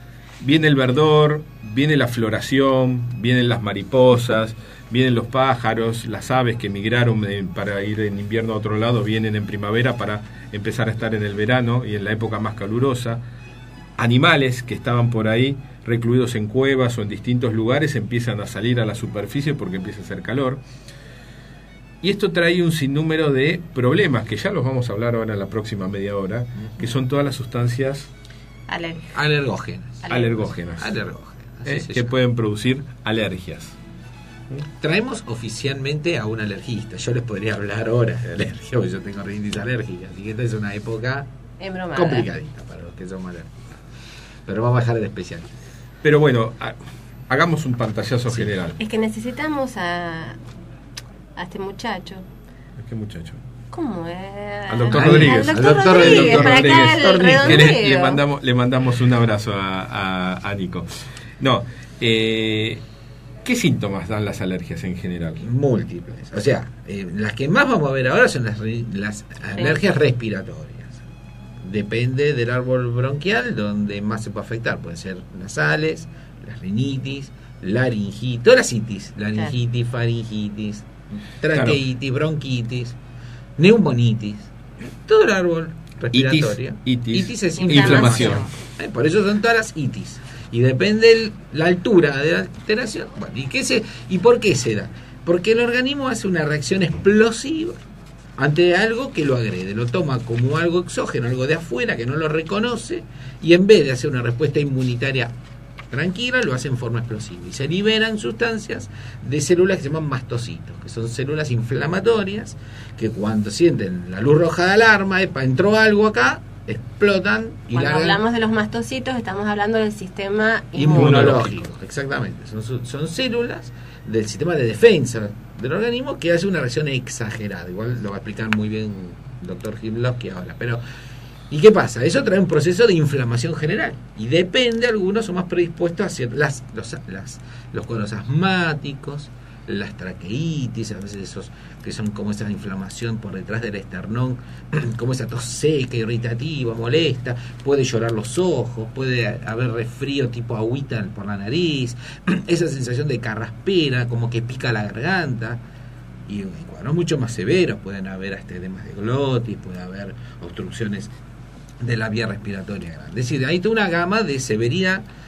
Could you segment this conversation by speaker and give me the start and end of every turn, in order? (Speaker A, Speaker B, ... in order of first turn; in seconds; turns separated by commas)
Speaker A: 0.4-13.2, Speaker A: 14.0-20.6, Speaker A: 22.0-28.1, Speaker B: 28.7-29.2, Speaker C: 29.1-30.0, Speaker B: 30.0-30.4, Speaker A: 30.1-30.9, Speaker C: 30.8-32.0, Speaker A: 31.6-33.8, Speaker C: 34.8-41.3, Speaker B: 41.6-42.3, Speaker C: 42.0-43.5, Speaker C: 44.5-45.5, Speaker A: 46.0-46.8, Speaker A: 47.3-48.8, Speaker B: 48.8-50.4, Speaker B: 51.4-52.2, Speaker A: 52.8-53.4, Speaker B: 53.7-58.2, Speaker A: 54.7-60.9, Speaker C: 54.9-57.4, Speaker A: 61.4-62.8, Speaker A: 63.4-65.4, Speaker C: 65.4-71.0, Speaker B: 69.4-69.9, Speaker C: 71.6-80.8, Speaker C: 81.4-83.0, Speaker A: 81.5-81.8, Speaker C: 83.6-97.8, Speaker A: 86.1-88.5, Speaker B: 87.5-88.5, Speaker C: 98.4-105.3, Speaker C: 105.9-118.2, Speaker B: 117.7-121.5, Speaker C: 120.8-130.8, Speaker A: 120.9-121.6, Speaker C: 131.5-155.6, Speaker C: 156.3-161.1, Speaker C: 161.8-165.0